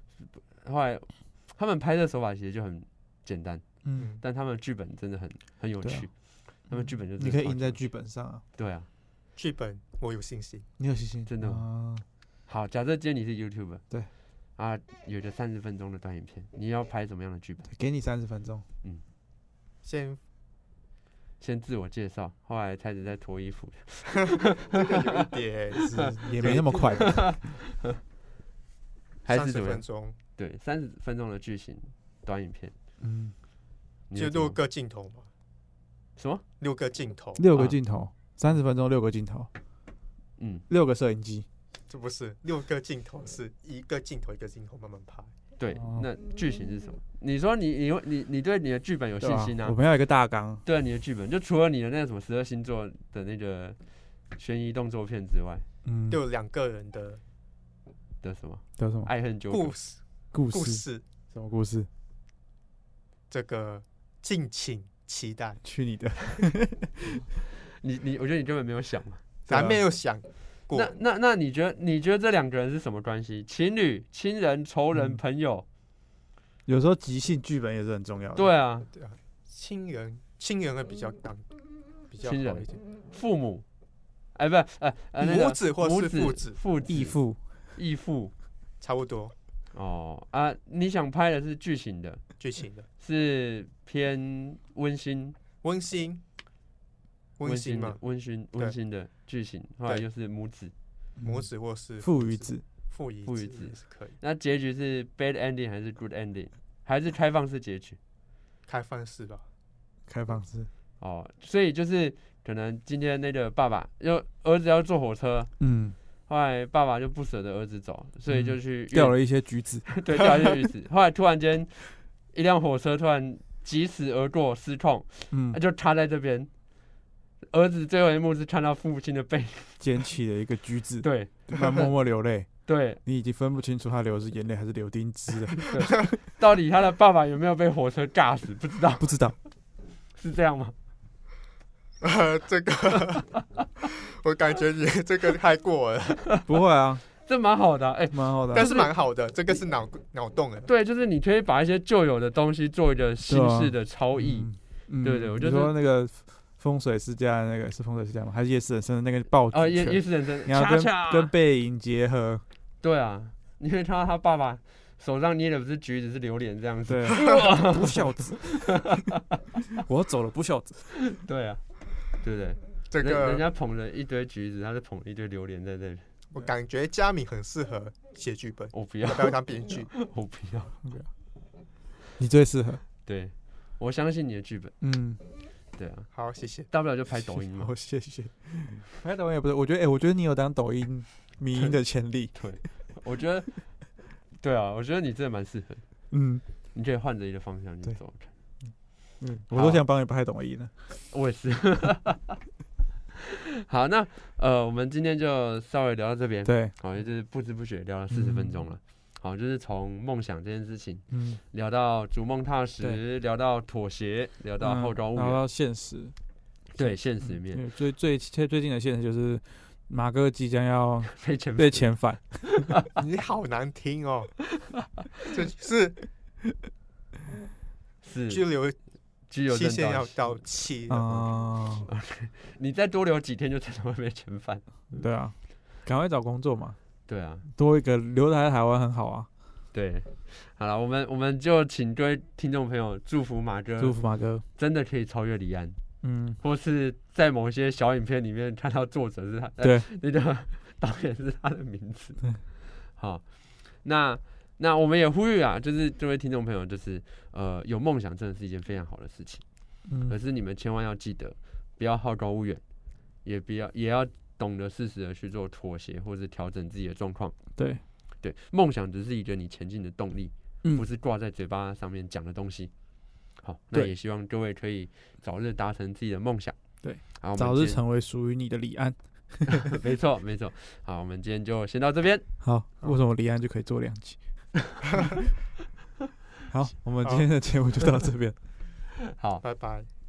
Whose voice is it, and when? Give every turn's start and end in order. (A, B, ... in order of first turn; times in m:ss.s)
0:00.2-0:07.8 A
0:05.8-0:06.1 B
0:06.7-0:08.4 B
0:08.6-0:08.9 A
0:09.4-0:10.7 C
0:10.8-0:12.0 B
0:11.3-0:11.7 A
0:12.5-0:13.8 A
0:14.6-0:17.7 A
0:17.7-0:18.6 B
0:19.8-0:20.2 C
0:21.4-0:25.0 A
0:24.4-0:27.2 C
0:25.8-0:27.4 B
0:26.4-0:28.0 A
0:29.2-0:29.8 A
0:29.3-0:30.2 C
0:30.4-0:32.7 A
0:33.0-0:33.3 B
0:34.1-0:34.6 A
0:34.2-0:35.3 C
0:36.2-0:36.4 A
0:36.6-0:37.4 C
0:37.4-0:39.5 B
0:40.4-0:40.7 A
0:40.7-0:41.5 B
0:41.9-0:45.3 C
0:45.6-0:49.8 A
0:45.7-0:46.1 B
0:49.2-0:50.6 B
0:50.6-0:53.8 A
0:54.3-0:55.7 A
0:55.8-0:56.2 B
0:56.1-0:57.2 C
0:58.2-0:59.8 A
0:58.8-0:59.1 B
0:59.5-1:01.0 C
1:00.3-1:01.9 B
1:03.3-1:05.6 C
1:05.6-1:07.2 B
1:07.2-1:09.2 A
1:09.5-1:09.8 B
1:09.5-1:11.0 C
1:10.7-1:15.6 A
1:14.9-1:15.2 B
1:16.7-1:18.5 B
1:18.4-1:18.9 A
1:18.9-1:21.5 C
1:22.0-1:22.8 C
1:22.2-1:23.6 A
1:24.3-1:27.2 A
1:25.2-1:26.6 C
1:26.9-1:27.4 B
1:27.8-1:28.3 A
1:28.8-1:29.4 C
1:29.7-1:32.4 A
1:32.4-1:32.9 C
1:33.0-1:35.4 A
1:35.6-1:36.2 C
1:37.4-1:38.0 C
1:37.4-1:40.7 A
1:41.2-1:41.5 B
1:41.2-1:44.2 C
1:42.0-1:42.6 B
1:43.3-1:48.0 A
1:48.7-1:49.4 C
1:50.1-1:50.7 B
1:51.0-1:55.5 A
1:55.6-1:56.0 B
1:56.3-1:59.2 A
1:58.3-2:00.0 B
1:59.9-2:06.5 A
2:05.3-2:05.6 B
2:07.4-2:09.8 A
2:09.8-2:15.9 B
2:11.0-2:11.5 A
2:12.7-2:13.0 A
2:15.7-2:19.2 A
2:19.0-2:19.4 B
2:20.1-2:20.7 A
2:22.0-2:23.3 C
2:23.9-2:26.3 C
2:26.4-2:27.1 B
2:27.2-2:28.9 A
2:28.1-2:28.8 B
2:28.5-2:30.7 C
2:30.7-2:35.8 A
2:33.3-2:42.4 B
2:39.5-2:41.3 A
2:42.8-2:49.2 A
2:46.9-2:49.1 B
2:49.7-2:51.1 B
2:51.1-2:56.1 A
2:52.9-2:53.4 C
2:56.3-2:59.9 C
2:58.7-3:00.8 A
3:02.2-3:02.8 B
3:03.0-3:04.8 A
3:04.8-3:05.2 B
3:05.7-3:06.1 A
3:06.1-3:06.7 C
3:06.7-3:07.7 A
3:07.4-3:12.7 B
3:12.4-3:15.8 A
3:16.1-3:16.4 B
3:16.7-3:18.3 A
3:19.2-3:20.7 B
3:19.5-3:19.8 A
3:21.1-3:22.4 A
3:23.5-3:35.4 A
3:26.4-3:26.8 B
3:28.1-3:28.6 B
3:31.1-3:31.4 B
3:34.6-3:36.2 B
3:36.7-3:37.6 A
3:37.2-3:42.7 B
3:41.2-3:42.0 A
3:43.0-3:44.4 C
3:45.2-3:46.0 C
3:48.0-3:48.5 A
3:48.3-3:48.8 C
3:49.3-3:50.4 A
3:49.5-3:51.3 C
3:50.9-3:51.9 B
3:51.9-3:54.6 A
3:54.9-3:56.8 B
3:57.1-3:57.4 A
3:57.6-3:59.3 B
3:59.7-4:04.0 A
4:03.8-4:04.4 B
4:04.6-4:05.8 A
4:06.0-4:06.4 B
4:06.4-4:19.5 A
4:09.6-4:09.9 B
4:19.9-4:20.2 B
4:20.0-4:22.6 A
4:23.2-4:27.5 A
4:27.6-4:27.8 B
4:28.2-4:32.7 A
4:33.3-4:36.6 A
4:36.8-4:39.7 B
4:37.2-4:37.8 A
4:39.6-4:42.3 A
4:42.4-4:44.2 B
4:46.4-4:48.4 B
4:47.0-4:47.3 C
4:49.1-4:49.4 A
4:49.4-4:49.9 C